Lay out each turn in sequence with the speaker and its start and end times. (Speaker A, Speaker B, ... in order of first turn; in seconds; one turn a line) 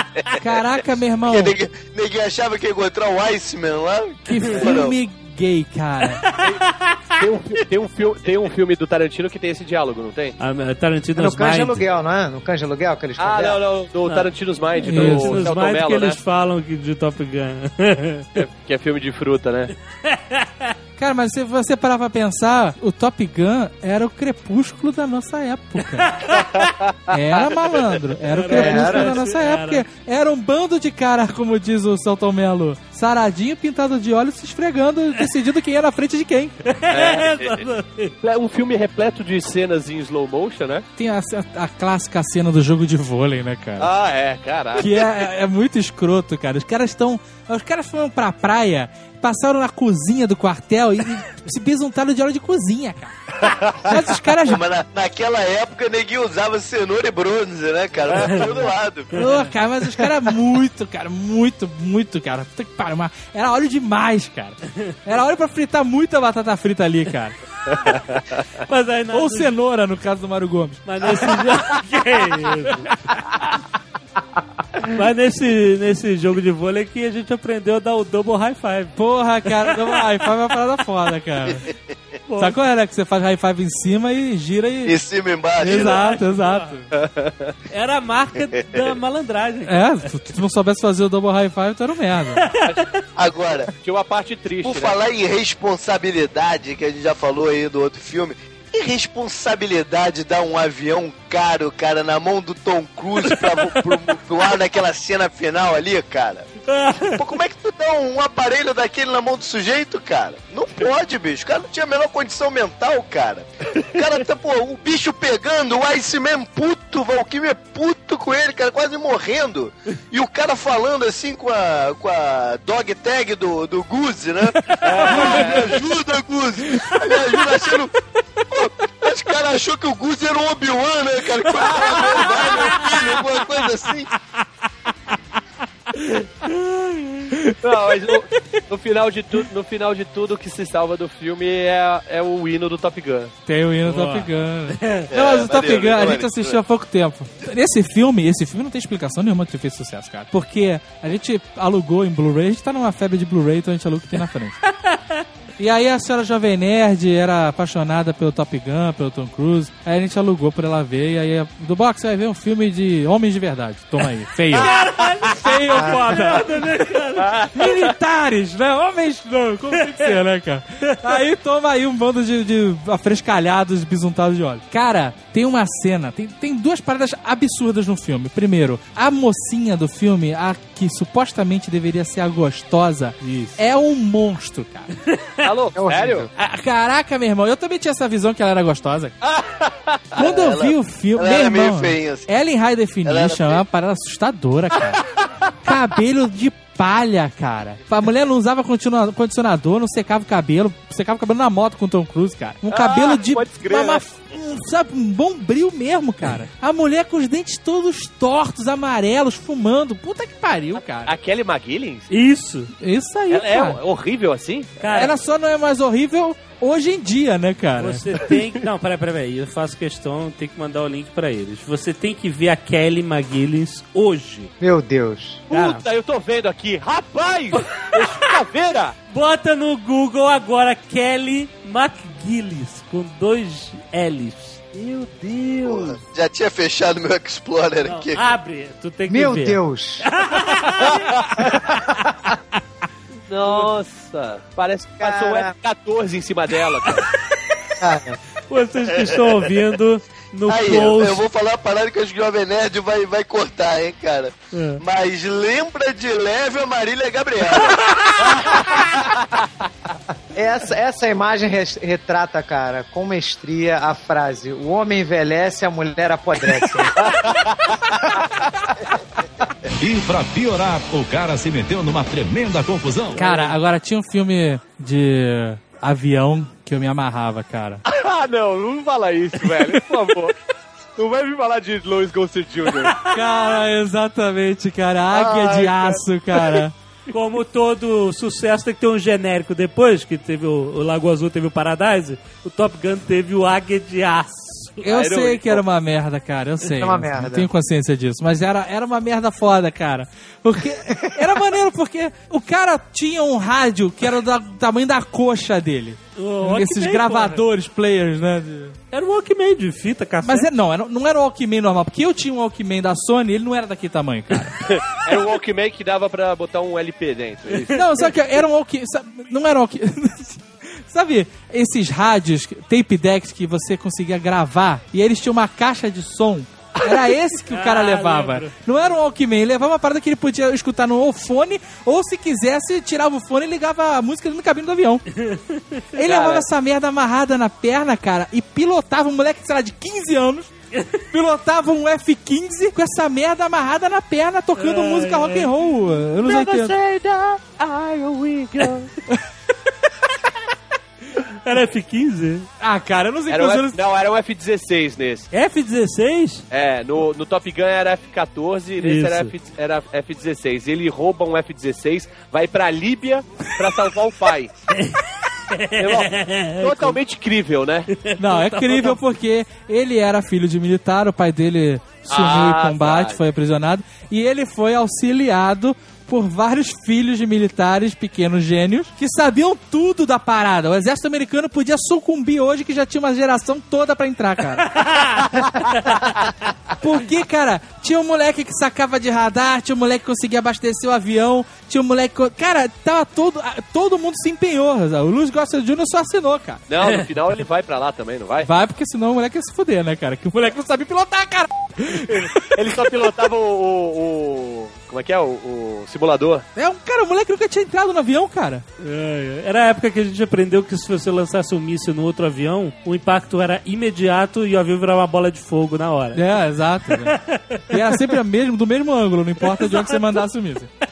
Speaker A: 0.3-1.6
Speaker B: 1.3-5.0
Speaker A: 4.2-6.2
Speaker C: 6.2-7.0
Speaker D: 7.2-10.4
Speaker C: 10.4-11.8
Speaker E: 11.2-13.6
Speaker D: 13.2-16.2
Speaker C: 14.1-18.4
Speaker A: 14.8-15.5
Speaker D: 18.4-19.7
Speaker C: 20.0-20.7
Speaker A: 21.0-26.2
Speaker C: 26.2-26.6
Speaker D: 26.5-26.9
Speaker A: 27.1-36.6
Speaker C: 28.3-29.8
Speaker E: 28.4-29.2
Speaker C: 36.6-38.1
Speaker D: 36.9-37.6
Speaker D: 38.2-40.8
Speaker A: 41.0-43.9
Speaker D: 43.8-45.1
Speaker A: 44.8-53.1
Speaker D: 53.4-53.9
Speaker A: 53.8-54.6
Speaker B: 54.4-59.1
Speaker D: 58.1-58.6
Speaker A: 59.1-67.3
Speaker C: 59.1-59.4
Speaker C: 68.7-69.5
Speaker A: 69.1-71.4
Speaker C: 70.8-72.9
Speaker C: 74.8-79.0
Speaker A: 79.0-81.7
Speaker C: 79.5-80.0
Speaker C: 82.3-82.6
Speaker A: 82.4-85.0
Speaker B: 84.8-86.0
Speaker A: 85.6-86.8
Speaker C: 85.7-86.8
Speaker D: 87.0-87.5
Speaker C: 87.7-90.1
Speaker A: 89.7-92.5
Speaker C: 92.4-92.8
Speaker B: 93.2-93.7
Speaker D: 93.8-95.0
Speaker B: 94.6-127.9
Speaker C: 106.7-107.2
Speaker D: 124.8-125.8
Speaker C: 125.0-125.5
Speaker B: 128.5-134.1
Speaker C: 136.4-137.3
Speaker D: 137.6-143.3
Speaker A: 143.4-154.6
Speaker C: 143.8-145.1
Speaker B: 145.1-146.6
Speaker C: 154.8-155.2
Speaker A: 155.6-164.7
Speaker C: 164.5-167.5
Speaker A: 165.3-166.5
Speaker D: 167.2-167.9
Speaker A: 167.5-184.9
Speaker C: 170.9-171.1
Speaker C: 183.2-183.6
Speaker C: 185.1-185.4
Speaker D: 185.4-186.3
Speaker E: 185.8-186.3
Speaker A: 186.3-189.1
Speaker D: 189.2-190.0
Speaker B: 190.1-192.3
Speaker A: 190.1-195.0
Speaker B: 193.0-193.6
Speaker A: 195.6-211.1
Speaker D: 202.7-204.1
Speaker D: 210.7-212.1
Speaker C: 212.1-212.7
Speaker A: 212.8-213.8
Speaker D: 213.3-214.8
Speaker C: 214.8-215.2
Speaker A: 214.8-218.0
Speaker C: 217.8-224.5
Speaker E: 224.6-225.4
Speaker D: 225.5-228.9
Speaker C: 225.5-225.8
Speaker C: 227.6-228.3
Speaker C: 229.1-235.8
Speaker B: 235.6-238.2
Speaker C: 237.8-241.7
Speaker E: 239.1-240.2
Speaker E: 241.4-241.9
Speaker D: 243.3-247.1
Speaker E: 245.0-245.5
Speaker E: 247.8-248.2
Speaker C: 248.5-251.2
Speaker B: 250.5-258.6
Speaker C: 254.5-254.8
Speaker E: 258.7-259.2
Speaker E: 260.3-267.3
Speaker D: 267.0-267.4
Speaker E: 267.9-268.3
Speaker F: 269.8-273.2
Speaker D: 273.2-273.6
Speaker A: 273.2-277.8
Speaker D: 277.9-280.3
Speaker A: 279.6-279.8
Speaker D: 281.0-283.1
Speaker A: 283.0-286.7
Speaker D: 285.1-286.6
Speaker C: 287.1-294.9
Speaker A: 294.8-308.8
Speaker D: 294.9-295.6
Speaker E: 296.6-297.5
Speaker C: 306.1-307.4
Speaker C: 308.9-310.5
Speaker A: 310.2-314.6
Speaker D: 314.6-317.8
Speaker A: 317.7-335.0
Speaker C: 327.4-328.9
Speaker C: 335.1-336.2
Speaker A: 335.9-340.5
Speaker D: 336.1-336.4
Speaker A: 341.1-346.8
Speaker C: 344.6-345.5
Speaker C: 346.2-348.8
Speaker C: 351.3-352.5
Speaker A: 352.6-353.8
Speaker D: 353.3-355.3
Speaker C: 355.3-356.4
Speaker D: 356.5-364.5
Speaker C: 358.8-359.3
Speaker C: 364.7-367.0
Speaker D: 365.8-367.9
Speaker C: 367.9-369.0
Speaker A: 368.2-385.2
Speaker D: 372.1-373.2
Speaker C: 384.7-386.2
Speaker A: 386.8-396.6
Speaker D: 396.7-398.5
Speaker A: 398.4-402.6
Speaker D: 402.1-406.4
Speaker A: 406.6-408.6
Speaker C: 408.8-416.2
Speaker A: 416.1-420.7
Speaker C: 416.9-417.8
Speaker C: 419.4-420.0